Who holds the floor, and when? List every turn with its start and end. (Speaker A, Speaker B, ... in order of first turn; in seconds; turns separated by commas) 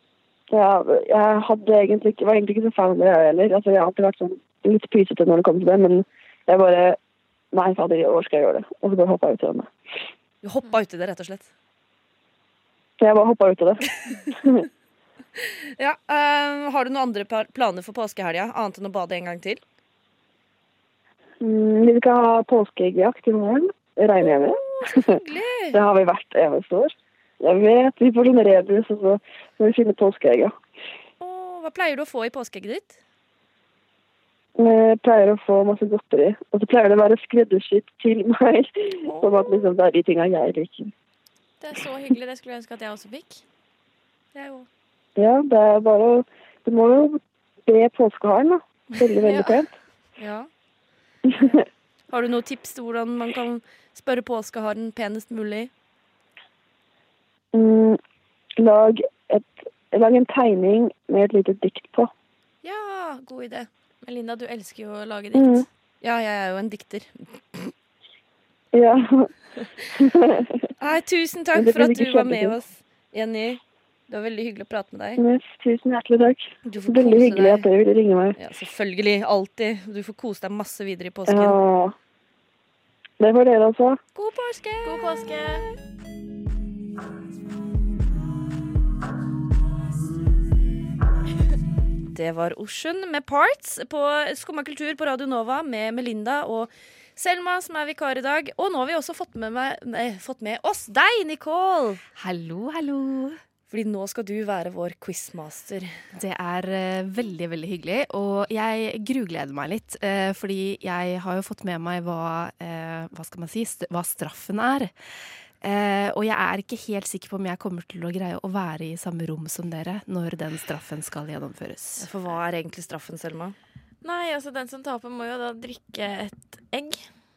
Speaker A: 0.5-7.0, Speaker A: 7.5-9.7, Speaker B: 10.4-11.5, Speaker A: 13.0-14.7, Speaker B: 15.8-19.6, Speaker A: 21.4-25.1, Speaker B: 24.2-25.8, Speaker A: 25.7-30.5, Speaker B: 31.2-33.0, Speaker A: 34.6-40.9, Speaker B: 39.0-39.6, Speaker C: 41.6-43.4, Speaker B: 44.3-44.7, Speaker A: 45.2-49.7, Speaker B: 49.2-49.5, Speaker B: 50.2-50.5, Speaker A: 51.3-51.6, Speaker B: 52.1-55.7, Speaker A: 57.5-58.0, Speaker A: 58.6-62.1, Speaker B: 62.6-63.7, Speaker C: 64.0-65.6, Speaker A: 65.3-65.7, Speaker B: 66.0-67.7, Speaker A: 68.7-69.3, Speaker A: 70.0-70.5, Speaker B: 70.8-75.2, Speaker A: 71.5-72.5, Speaker A: 75.2-78.3, Speaker B: 76.6-77.7, Speaker B: 78.3-81.6, Speaker A: 81.3-81.9, Speaker A: 83.2-84.0, Speaker B: 84.1-85.2, Speaker C: 84.8-85.7, Speaker B: 92.1-102.0, Speaker D: 102.2-103.4, Speaker B: 103.7-105.9, Speaker D: 106.1-114.9, Speaker D: 115.6-122.1, Speaker B: 122.0-123.5, Speaker C: 124.0-127.0